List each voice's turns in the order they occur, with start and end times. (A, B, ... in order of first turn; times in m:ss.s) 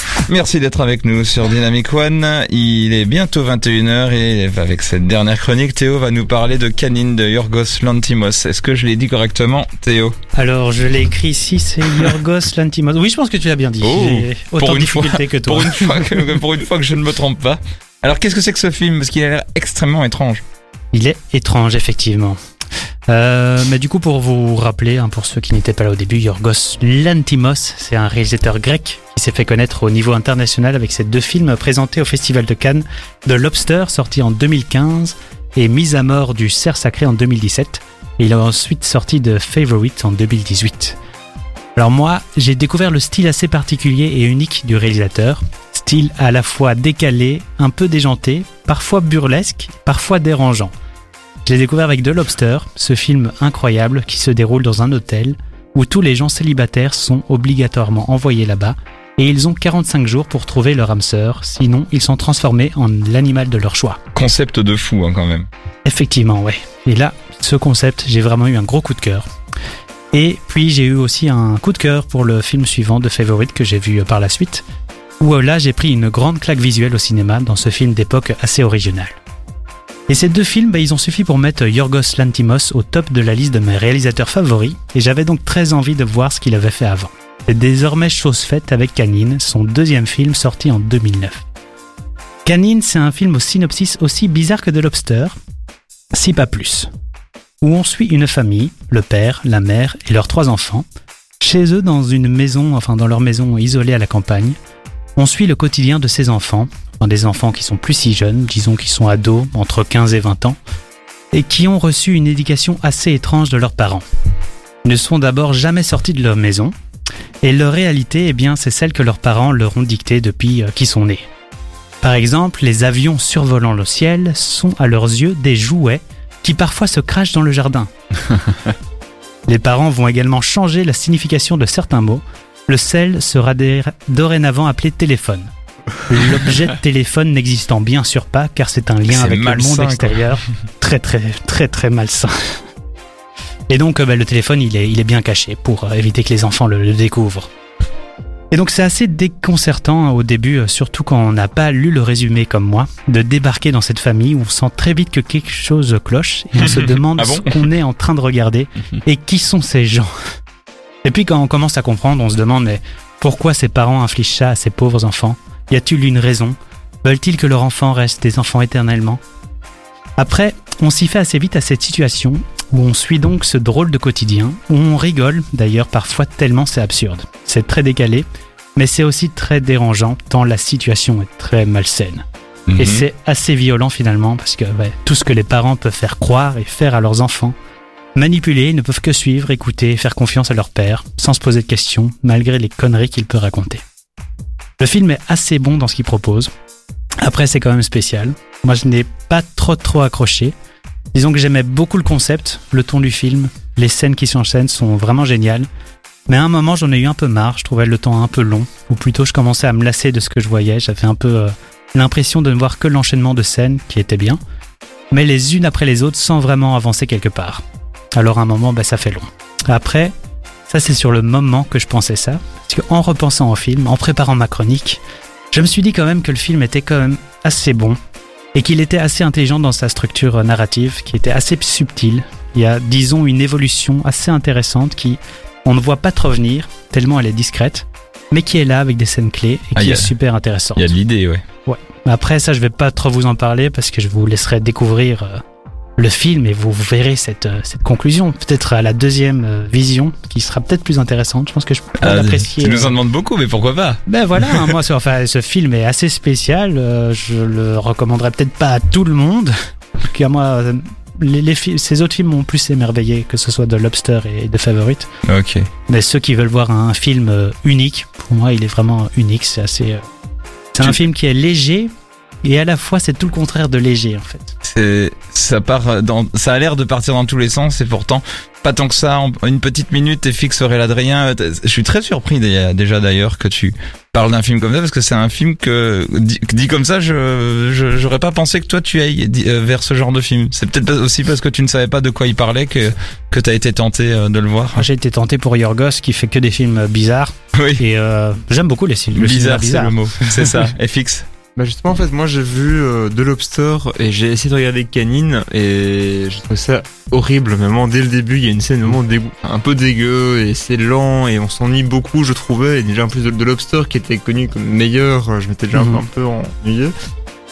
0:00.3-0:10.2 A
0:10.3-0:16.2 B
0:13.8-0:20.4 A
0:20.9-0:22.4 B
0:23.1-0:41.0 B
0:41.8-0:50.7 B
0:51.4-1:04.0 B
1:04.2-1:05.5 A
1:05.8-1:09.3 B
1:10.1-1:14.6 B
1:15.2-1:19.2 B
1:20.1-1:31.4 B
1:32.4-1:35.4 B
1:36.1-1:36.9 B
1:37.6-1:40.8 B
1:41.4-1:44.6 B
1:45.2-1:50.6 B
1:51.3-1:54.0 B
1:54.8-1:56.7 B
1:57.4-2:01.2 B
2:02.0-2:07.9 B
2:09.5-2:15.5 B
2:16.1-2:22.3 B
2:19.1-2:20.3 A
2:23.7-2:27.5 B
2:28.5-2:40.1 B
2:36.6-2:37.6 A
2:41.0-2:49.2 B
2:50.2-3:02.2 B
3:02.7-3:03.0 A
3:02.8-3:07.6 B
3:08.2-3:13.8 B
3:14.8-3:16.5 B
3:17.2-3:20.5 B
3:21.1-3:25.7 B
3:26.3-3:34.4 B
3:35.1-3:37.6 B
3:38.2-3:40.1 B
3:40.7-3:45.0 B
3:45.5-3:48.0 B
3:48.6-4:01.0 B
3:59.8-4:00.1 A
4:00.8-4:01.4 A
4:01.7-4:05.4 B
4:06.0-4:13.0 B
4:12.0-4:14.7 A
4:14.1-4:25.1 B
4:25.3-4:25.7 A
4:25.9-4:30.0 B
4:30.7-4:31.9 B
4:32.4-4:34.5 B
4:34.7-4:54.9 A
4:54.7-5:00.5 B
4:57.6-4:57.8 A
4:59.1-5:01.3 A
5:01.6-5:17.0 C
5:15.7-5:16.0 B